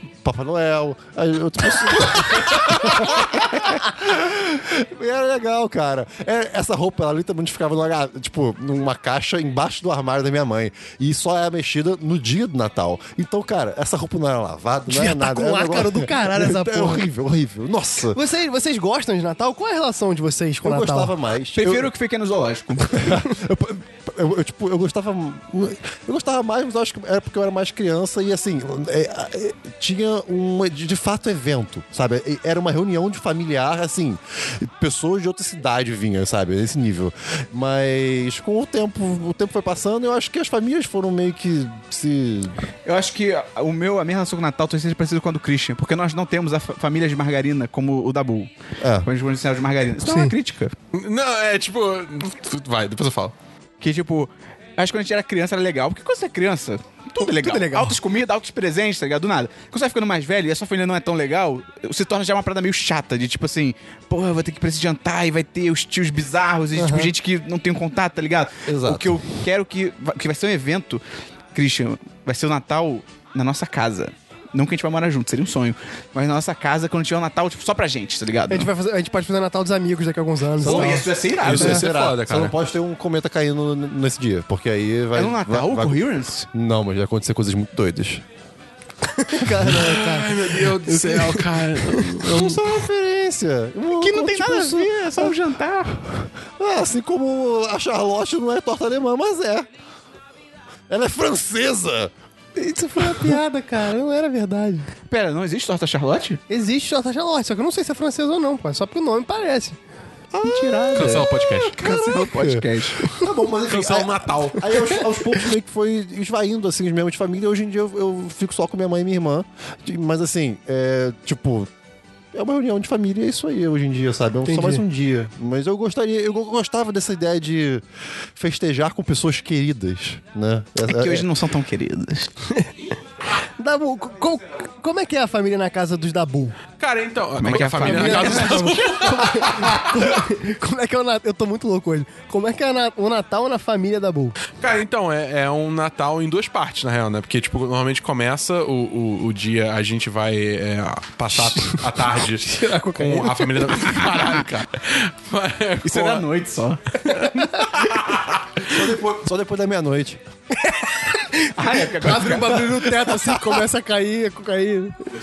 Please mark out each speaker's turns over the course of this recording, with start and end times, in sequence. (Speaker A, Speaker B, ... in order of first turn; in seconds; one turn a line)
Speaker A: 0.2-18.2
Speaker B: 14.9-17.1
Speaker B: 18.1-21.1
Speaker A: 20.6-21.9
Speaker C: 21.6-23.2
Speaker A: 22.9-42.6
Speaker C: 42.9-48.5
Speaker A: 48.8-49.1
Speaker C: 49.0-50.8
Speaker B: 50.0-50.3
Speaker D: 50.9-53.3
Speaker C: 53.8-71.0
Speaker B: 57.2-58.0
Speaker B: 66.8-67.1
Speaker A: 68.7-69.2
Speaker C: 71.5-78.7
Speaker B: 78.5-81.1
Speaker C: 80.6-81.9
Speaker D: 80.7-82.5
Speaker A: 81.4-86.0
Speaker C: 85.2-86.5
Speaker A: 86.5-88.2
Speaker B: 89.1-92.2
Speaker D: 89.6-92.6
Speaker A: 92.0-95.3
Speaker C: 93.9-96.0
Speaker A: 96.6-99.7
Speaker A: 100.9-102.1
Speaker B: 102.6-104.9
Speaker A: 103.0-103.4
Speaker C: 105.1-106.4
Speaker B: 106.5-109.8
Speaker A: 110.3-121.7
Speaker B: 110.4-111.2
Speaker D: 111.0-111.8
Speaker C: 111.1-113.0
Speaker D: 113.7-114.7
Speaker B: 114.7-115.0
Speaker A: 122.3-127.8
Speaker B: 124.5-124.8
Speaker A: 128.4-131.3
Speaker C: 130.8-132.3
Speaker B: 133.6-136.6
Speaker D: 136.8-140.0
Speaker C: 137.4-138.8
Speaker B: 137.8-144.4
Speaker D: 144.6-156.2
Speaker B: 152.4-154.0
Speaker C: 155.8-157.0
Speaker D: 157.1-158.8
Speaker B: 157.1-157.7
Speaker A: 158.6-160.2
Speaker B: 160.6-165.1
Speaker C: 161.6-162.8